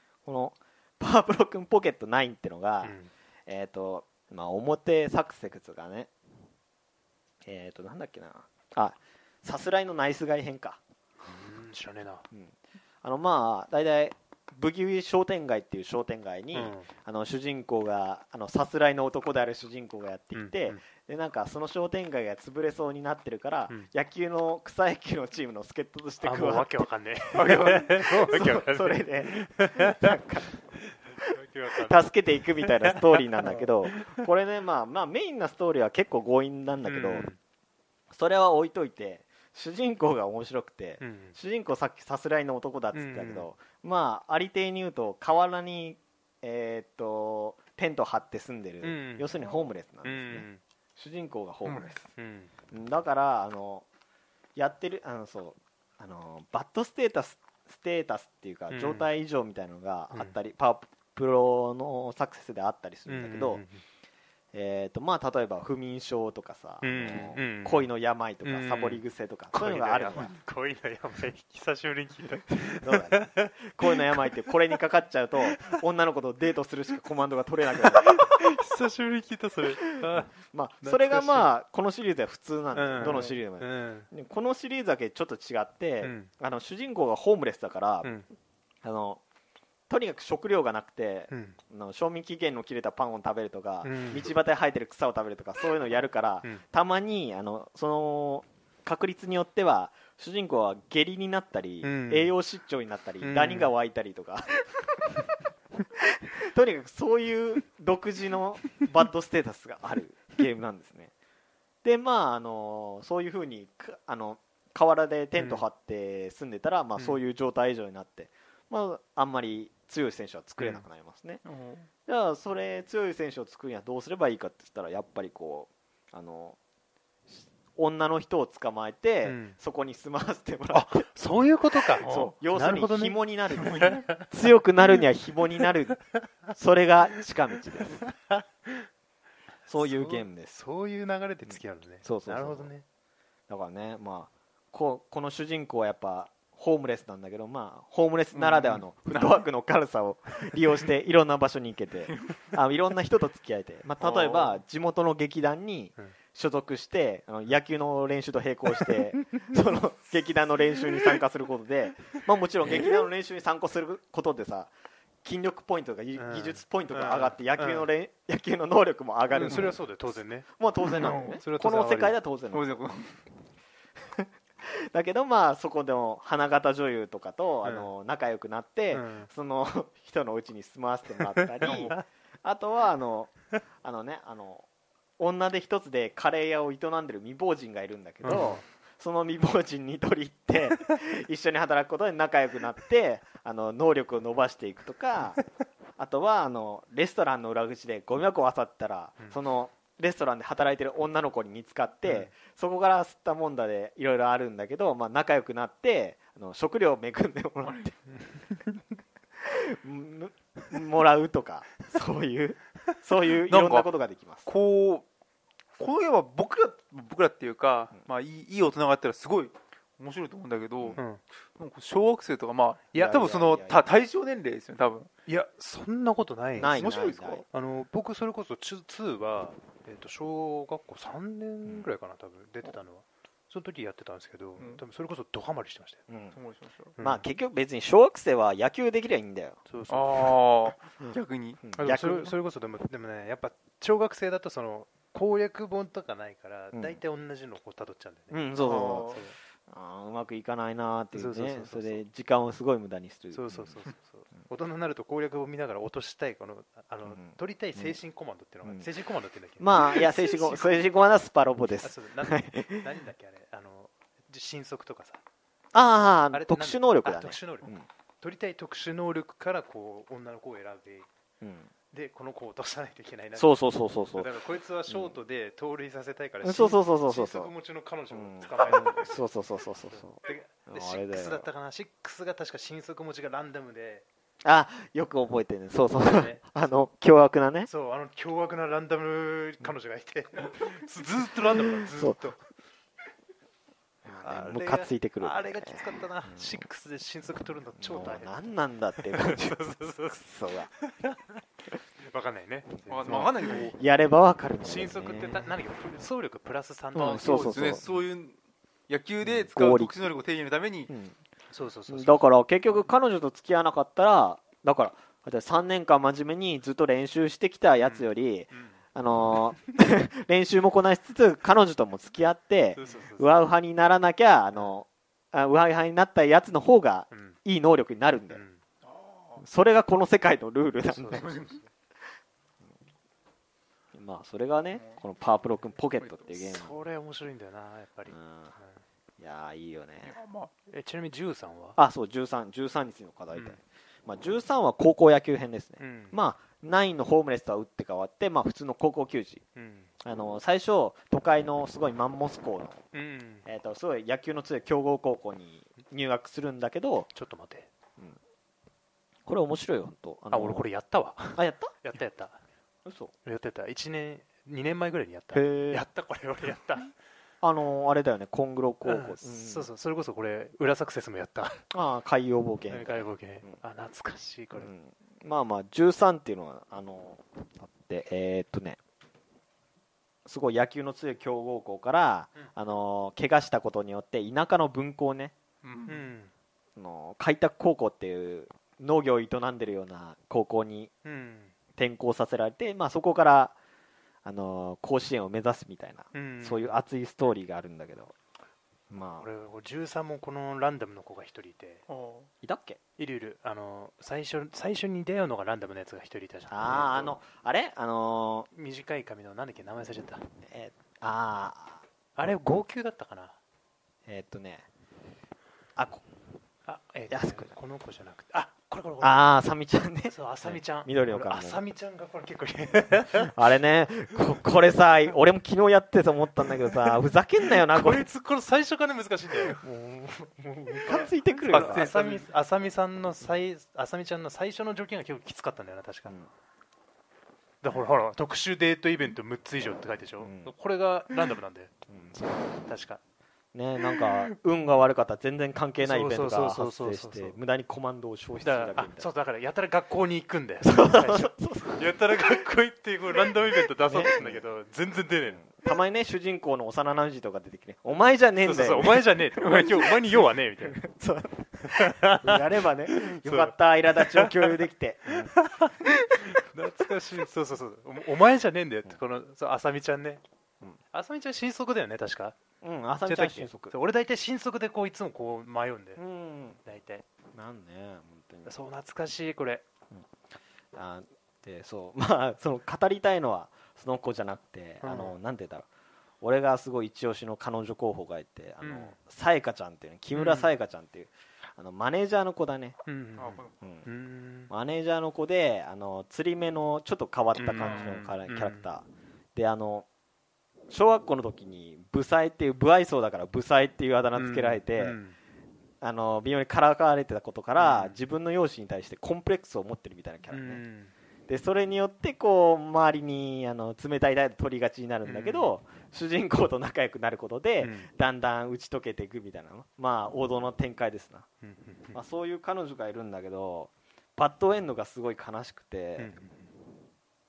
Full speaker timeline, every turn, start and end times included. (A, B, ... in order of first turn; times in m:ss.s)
0:00.2-0:06.1 A
0:02.8-0:03.1 B
0:07.4-0:10.8 A
0:11.2-0:12.2 B
0:12.3-0:37.3 A
0:16.5-0:16.9 B
0:20.3-0:20.8 B
0:26.2-0:30.2 B
0:27.3-0:27.9 C
0:30.9-0:32.1 B
0:32.6-0:34.2 B
0:36.8-0:37.4 B
0:38.1-0:52.0 A
0:41.0-0:41.4 B
0:42.9-0:43.5 B
0:48.8-0:49.3 B
0:50.0-0:50.6 B
0:51.6-0:52.0 C
0:52.2-0:52.5 B
0:52.7-0:53.9 A
0:54.6-1:03.6 A
0:58.7-0:59.1 B
1:03.1-1:03.8 B
1:04.5-1:10.3 A
1:06.8-1:07.9 B
1:08.4-1:14.0 B
1:12.7-1:18.5 A
1:15.5-1:15.8 B
1:17.8-1:21.5 B
1:20.1-1:28.1 A
1:22.7-1:24.1 B
1:26.0-1:26.3 B
1:28.0-1:28.3 B
1:28.8-1:29.2 A
1:29.9-1:45.2 A
1:31.3-1:31.6 B
1:33.8-1:34.3 B
1:41.8-1:42.3 B
1:43.2-1:43.7 B
1:46.0-1:51.1 A
1:51.8-2:01.4 A
1:55.4-1:55.6 B
2:00.6-2:00.8 B
2:01.4-2:01.9 C
2:02.1-2:06.6 A
2:07.4-2:11.1 A
2:09.2-2:09.6 B
2:10.7-2:14.3 B
2:12.0-2:18.0 A
2:12.0-2:12.3 C
2:13.5-2:14.0 C
2:17.9-2:18.8 B
2:19.7-2:20.6 A
2:19.8-2:22.8 B
2:21.4-2:22.7 A
2:23.5-2:44.7 A
2:29.1-2:29.4 C
2:32.1-2:32.4 C
2:34.0-2:34.6 C
2:38.8-2:39.5 B
2:45.2-2:52.7 A
2:46.1-2:47.9 B
2:49.3-2:52.2 B
2:49.4-2:49.7 C
2:50.9-2:51.4 C
2:52.5-2:53.2 C
2:54.9-3:04.7 A
2:57.6-2:57.9 B
2:58.9-2:59.3 B
3:01.4-3:02.0 B
3:01.6-3:01.9 C
3:05.2-3:15.4 A
3:08.2-3:08.6 B
3:16.0-3:27.9 A
3:22.0-3:22.3 B
3:27.6-3:27.9 C
3:28.1-3:28.7 B
3:29.4-3:34.5 A
3:33.4-3:33.9 B
3:34.4-3:35.1 C
3:35.8-3:41.0 C
3:41.6-3:45.1 C
3:42.9-3:43.3 B
3:42.9-3:43.8 A
3:45.3-3:46.9 B
3:46.6-3:47.4 A
3:46.6-3:47.4 C
3:47.5-3:56.0 B
3:56.1-3:56.4 A
3:56.3-3:56.9 C
3:57.0-3:57.2 B
3:57.0-3:59.6 A
3:59.7-4:00.4 B
3:59.9-4:01.6 C
4:01.0-4:02.3 A
4:01.8-4:09.4 B
4:06.7-4:07.0 A
4:08.3-4:13.8 A
4:08.6-4:09.2 C
4:11.1-4:12.0 B
4:13.3-4:20.9 B
4:17.1-4:18.0 A
4:19.6-4:22.8 A
4:21.8-4:25.2 B
4:25.7-4:27.9 A
4:26.3-4:31.1 B
4:31.4-4:31.7 A
4:31.9-4:39.2 B
4:33.4-4:34.3 A
4:34.9-4:35.2 A
4:36.4-4:37.5 A
4:38.1-4:41.5 A
4:39.9-4:44.0 B
4:44.4-4:47.7 A
4:46.0-4:46.8 B
4:47.7-4:52.4 B
4:51.6-4:52.2 A
4:54.1-4:56.6 A
4:54.1-5:01.4 B
4:57.8-5:00.7 A
5:02.0-5:03.7 B
5:02.9-5:03.8 C
5:03.0-5:05.5 A
5:04.6-5:07.5 B
5:07.0-5:07.9 A
5:07.0-5:08.4 C
5:08.9-5:10.9 C
5:09.2-5:09.9 A
5:10.9-5:11.2 A
5:11.5-5:12.3 B
5:11.9-5:28.4 A
5:17.8-5:18.7 B
5:22.8-5:23.4 B
5:27.1-5:27.4 B
5:28.3-5:28.6 B
5:28.8-5:29.4 C
5:29.4-5:31.3 A
5:30.9-5:31.6 B
5:31.2-5:31.6 C
5:33.9-5:36.8 A
5:34.7-5:35.0 C
5:36.0-5:36.3 C
5:36.4-5:38.8 B
5:38.1-5:38.6 A
5:39.2-5:40.2 A
5:40.0-5:40.5 C
5:40.7-5:41.8 B
5:41.8-5:49.4 A
5:45.8-5:46.2 B
5:49.6-5:49.9 B
5:50.0-5:52.8 A
5:52.9-5:53.4 B
5:53.4-5:57.1 A
5:57.1-5:57.7 B
5:59.2-6:00.6 A
6:00.3-6:02.4 B
6:01.4-6:01.7 A
6:02.8-6:03.1 A
6:03.2-6:06.9 B
6:05.3-6:05.8 A
6:07.4-6:09.7 A
6:08.8-6:11.6 B
6:11.7-6:13.6 A
6:12.7-6:14.7 B
6:14.6-6:18.8 A
6:20.2-6:25.3 A
6:25.6-6:26.0 C
6:25.9-6:26.3 B
6:26.8-6:30.9 A
6:31.0-6:31.5 B
6:31.8-6:33.5 A
6:34.2-6:38.2 A
6:36.1-6:36.8 B
6:38.9-6:39.2 A
6:39.1-6:41.9 B
6:41.9-6:42.3 C
6:42.4-6:42.8 A
6:43.0-6:47.2 B
6:46.5-6:48.5 A
6:48.5-6:50.2 B
6:50.5-6:51.8 A
6:52.2-6:53.4 B
6:54.1-6:54.7 A
6:55.8-6:56.0 A
6:56.7-6:59.3 B
6:57.1-6:57.5 A
6:59.0-7:01.6 A
7:00.1-7:03.4 B
7:03.2-7:08.1 A
7:07.6-7:09.7 B
7:09.6-7:11.9 A
7:10.5-7:16.2 B
7:11.5-7:12.2 C
7:17.6-7:21.7 B
7:20.2-7:20.5 A
7:21.9-7:22.5 A
7:22.6-7:23.0 B
7:23.5-7:29.1 A
7:23.8-7:24.3 B
7:25.8-7:27.4 B
7:28.4-7:35.6 B
7:30.6-7:32.4 A
7:33.8-7:34.4 A
7:35.4-7:39.1 A
7:38.4-7:40.8 B
7:39.4-7:40.2 C
7:40.7-7:45.4 A
7:41.6-7:44.3 B
7:45.2-7:50.2 B
7:50.9-7:52.4 B
7:52.6-7:53.7 A
7:53.1-7:56.0 B
7:56.0-7:56.6 A
7:56.6-7:57.0 B
7:57.3-7:58.6 A
7:58.4-7:59.6 B
8:00.8-8:05.7 A
8:04.8-8:05.2 B
8:06.2-8:12.8 A
8:08.6-8:09.0 B
8:10.1-8:10.5 B
8:12.9-8:14.5 B
8:13.2-8:13.5 C
8:13.6-8:13.9 A
8:14.5-8:19.9 A
8:17.4-8:18.7 B
8:17.6-8:18.0 C
8:20.7-8:25.0 A
8:24.1-8:25.2 B
8:25.8-8:30.6 A
8:27.6-8:28.0 B
8:30.3-8:30.9 B
8:31.3-8:41.3 A
8:35.0-8:35.6 B
8:37.6-8:37.9 B
8:41.4-8:42.0 B
8:41.9-8:46.1 A
8:46.0-8:46.5 B